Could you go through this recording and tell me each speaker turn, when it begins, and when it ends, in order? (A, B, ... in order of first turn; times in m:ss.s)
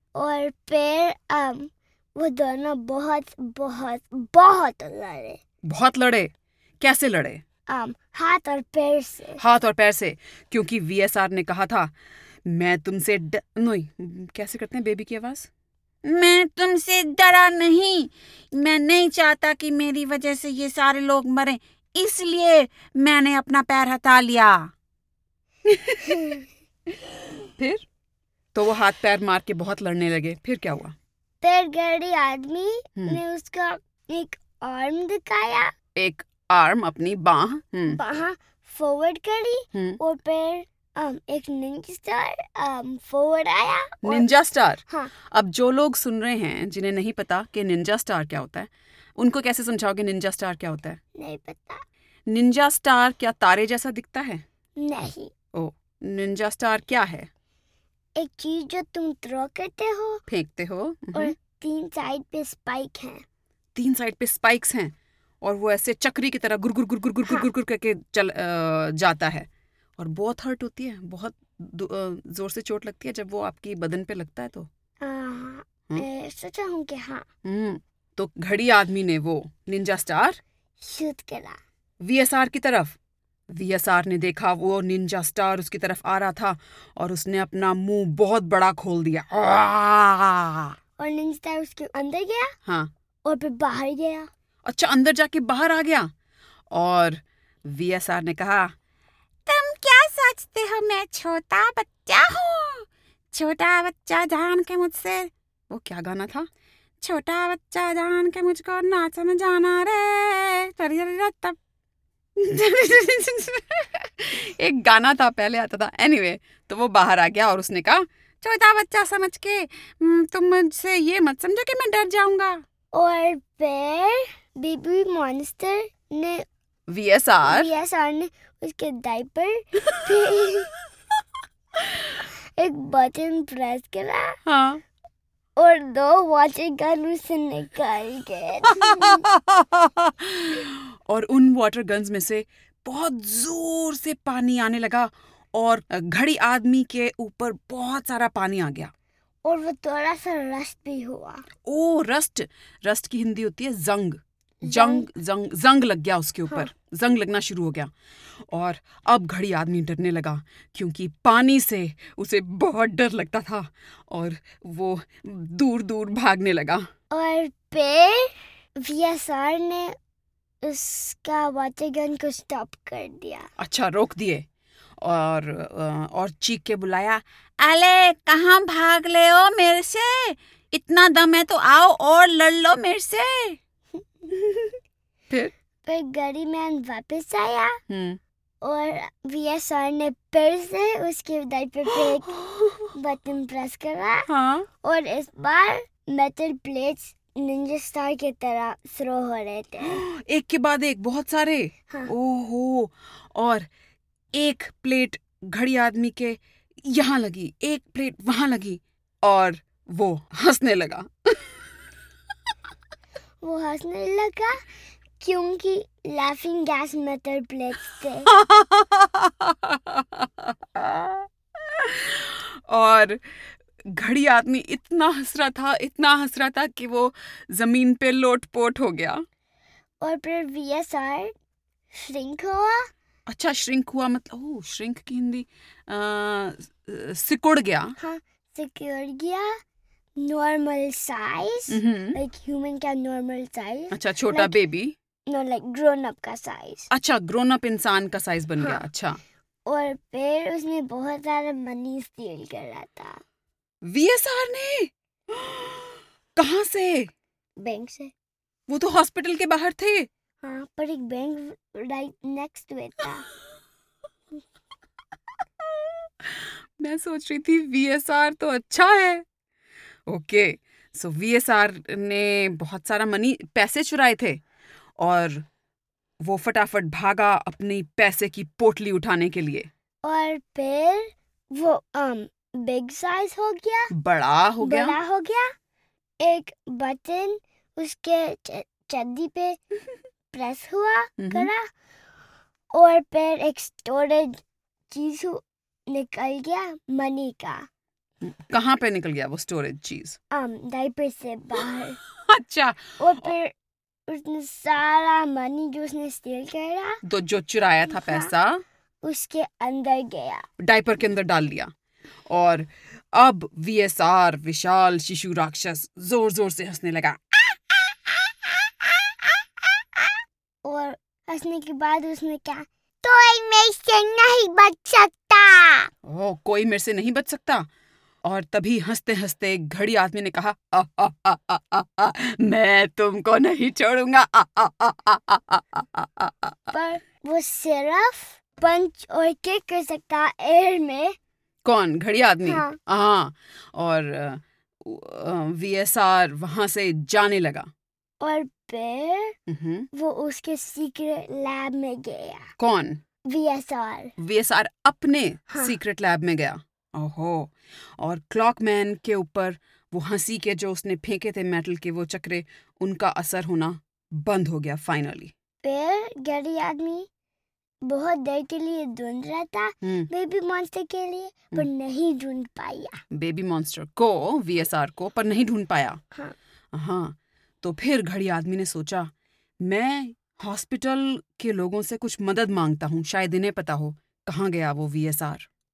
0:00.2-0:05.4 A
0:05.6-0:07.4 B
0:07.7-0:09.4 A
0:09.4-0:11.9 B
0:12.5-0:15.5 B
0:16.0-0:24.7 B
0:25.7-0:26.4 B
0:27.6-0:27.8 B
0:28.5-0:31.0 B
0:31.4-0:35.7 A
0:36.0-0:38.0 B
0:37.9-0:44.3 A
0:39.7-0:40.0 B
0:44.0-0:51.0 B
0:51.2-0:51.8 A
0:52.3-0:54.4 B
0:54.8-0:55.3 A
0:55.5-0:57.3 B
0:58.2-1:00.2 A
1:00.3-1:01.4 B
1:01.1-1:03.2 A
1:03.8-1:09.5 B
1:10.0-1:14.7 B
1:15.0-1:17.3 A
1:17.4-1:20.4 B
1:20.8-1:21.6 A
1:22.0-1:23.0 B
1:23.5-1:30.8 B
1:31.0-1:32.6 A
1:32.7-1:32.9 B
1:33.2-1:34.3 A
1:34.6-1:36.1 B
1:36.7-1:38.7 B
1:39.5-1:46.5 B
1:47.0-1:51.6 B
1:52.4-2:02.6 B
2:02.9-2:06.4 A
2:06.9-2:07.7 B
2:07.5-2:10.7 A
2:12.2-2:14.4 A
2:14.4-2:14.8 B
2:15.6-2:19.2 A
2:18.7-2:28.9 B
2:29.4-2:31.5 A
2:31.7-2:37.9 B
2:34.6-2:35.1 A
2:38.5-2:46.9 B
2:47.1-2:50.0 A
2:50.6-2:53.5 A
2:53.6-2:54.4 B
2:55.0-3:03.6 B
3:05.8-3:07.8 A
3:07.9-3:08.2 B
3:08.6-3:12.4 A
3:11.9-3:12.9 B
3:13.0-3:14.3 A
3:14.3-3:14.7 B
3:14.8-3:20.0 A
3:19.8-3:23.7 B
3:24.3-3:31.6 B
3:33.4-3:34.6 A
3:35.2-3:38.3 A
3:38.3-3:43.4 B
3:43.9-3:49.2 B
3:50.0-3:51.3 A
3:51.9-3:52.9 A
3:53.3-3:58.0 B
3:58.0-3:59.5 A
4:00.2-4:04.6 A
4:01.7-4:02.2 B
4:03.9-4:05.0 B
4:05.3-4:06.9 A
4:06.9-4:09.2 B
4:08.6-4:08.8 A
4:09.7-4:13.2 A
4:13.8-4:17.1 B
4:17.6-4:18.1 A
4:18.7-4:20.1 B
4:20.4-4:23.3 A
4:26.2-4:29.2 B
4:30.1-4:34.4 B
4:35.0-4:35.5 B
4:36.2-4:39.7 B
4:40.0-4:43.9 A
4:43.9-4:45.0 B
4:44.6-4:45.5 A
4:46.2-4:49.6 A
4:50.3-4:51.6 A
4:51.2-4:51.5 B
4:52.7-4:54.4 A
4:54.9-4:57.7 A
4:58.2-5:00.2 B
5:00.3-5:02.0 A
5:02.3-5:03.0 B
5:03.0-5:03.5 A
5:04.1-5:07.0 A
5:07.0-5:08.6 B
5:07.9-5:08.3 A
5:09.0-5:10.5 A
5:10.6-5:11.7 B
5:12.3-5:19.3 B
5:20.6-5:25.9 A
5:26.0-5:27.7 B
5:28.2-5:36.7 B
5:36.7-5:41.2 A
5:41.6-5:47.7 B
5:42.5-5:42.8 A
5:48.2-5:49.4 A
5:49.5-5:49.9 B
5:49.9-5:52.5 A
5:52.6-5:53.0 B
5:53.3-5:54.1 A
5:54.2-6:05.3 B
6:05.6-6:07.1 A
6:07.8-6:13.0 A
6:09.8-6:10.1 B
6:13.1-6:16.0 B
6:16.7-6:19.1 B
6:19.6-6:25.5 B